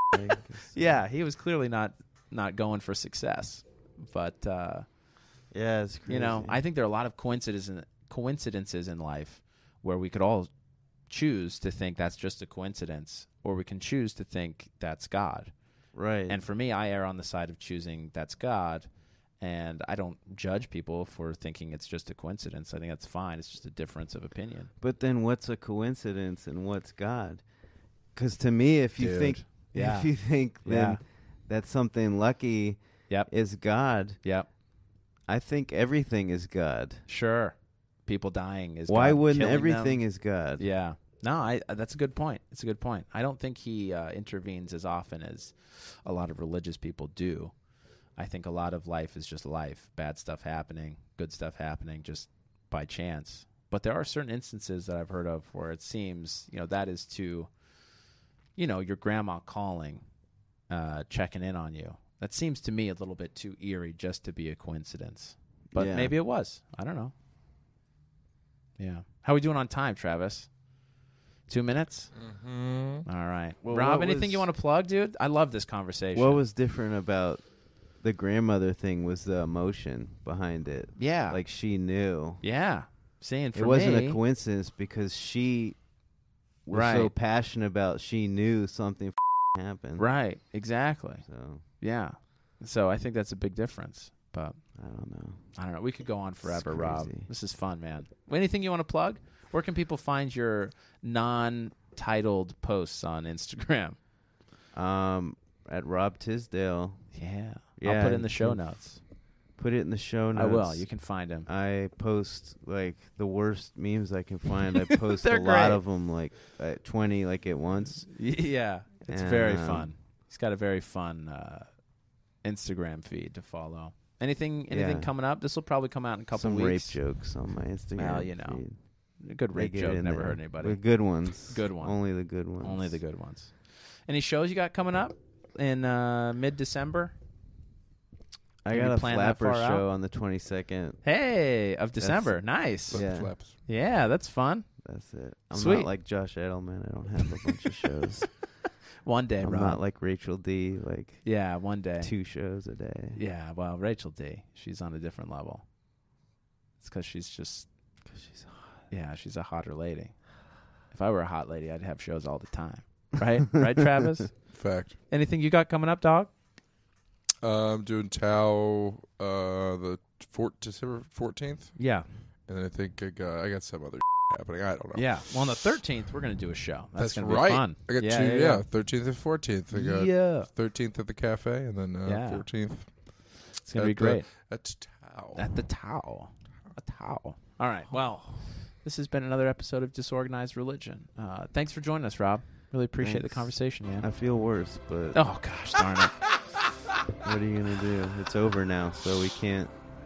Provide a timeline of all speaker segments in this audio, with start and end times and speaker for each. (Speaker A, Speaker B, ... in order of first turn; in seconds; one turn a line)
Speaker A: 0.1-1.0
Speaker B: 0.7-4.8
Speaker A: 5.5-6.6
Speaker B: 6.1-10.5
Speaker B: 11.1-15.5
Speaker A: 15.9-16.4
Speaker B: 16.3-24.7
Speaker A: 24.8-27.4
Speaker A: 28.1-34.2
Speaker B: 29.0-30.1
Speaker B: 30.6-31.0
Speaker B: 34.2-34.5
Speaker A: 35.3-37.0
Speaker B: 37.1-40.0
Speaker A: 38.9-40.6
Speaker B: 40.6-47.5
Speaker B: 48.1-57.5
Speaker B: 58.5-60.0
Speaker B: 60.7-67.1
Speaker A: 65.7-66.1
Speaker B: 68.8-70.5
Speaker B: 71.5-72.1
Speaker C: 72.1-73.1
Speaker B: 73.0-76.4
Speaker A: 73.6-74.5
Speaker A: 76.1-77.5
Speaker A: 78.0-82.4
Speaker B: 81.0-81.4
Speaker B: 82.4-84.2
Speaker A: 83.5-85.8
Speaker A: 86.7-90.0
Speaker B: 86.7-87.1
Speaker B: 90.0-91.2
Speaker A: 91.2-91.6
Speaker B: 91.8-94.6
Speaker A: 94.8-95.5
Speaker B: 95.5-104.0
Speaker A: 96.4-97.3
Speaker A: 104.7-107.1
Speaker B: 107.1-109.0
Speaker A: 107.8-108.7
Speaker A: 109.6-110.9
Speaker B: 110.3-111.5
Speaker A: 111.5-118.1
Speaker B: 114.8-115.8
Speaker B: 118.1-121.8
Speaker A: 119.1-119.9
Speaker B: 122.4-127.0
Speaker A: 124.7-125.1
Speaker A: 126.3-128.8
Speaker B: 128.0-128.6
Speaker B: 129.2-130.8
Speaker A: 129.5-133.0
Speaker B: 131.5-132.0
Speaker B: 132.6-137.1
Speaker A: 138.6-141.0
Speaker B: 138.7-139.8
Speaker B: 141.0-143.0
Speaker A: 142.0-143.3
Speaker C: 142.9-143.6
Speaker B: 143.6-144.7
Speaker A: 144.8-148.3
Speaker B: 145.5-145.9
Speaker B: 149.0-149.8
Speaker A: 149.4-151.2
Speaker B: 151.2-152.1
Speaker A: 152.0-153.2
Speaker B: 153.1-155.6
Speaker B: 156.8-157.7
Speaker A: 158.1-158.7
Speaker B: 158.9-160.2
Speaker B: 160.9-164.3
Speaker C: 164.5-165.0
Speaker B: 165.1-166.3
Speaker C: 167.4-171.8
Speaker B: 171.8-172.1
Speaker C: 172.5-175.7
Speaker B: 174.9-178.6
Speaker C: 176.9-185.5
Speaker B: 179.7-180.5
Speaker B: 182.0-182.4
Speaker B: 183.6-184.3
Speaker B: 185.3-194.1
Speaker A: 193.0-195.2
Speaker B: 195.1-196.2
Speaker A: 197.2-199.7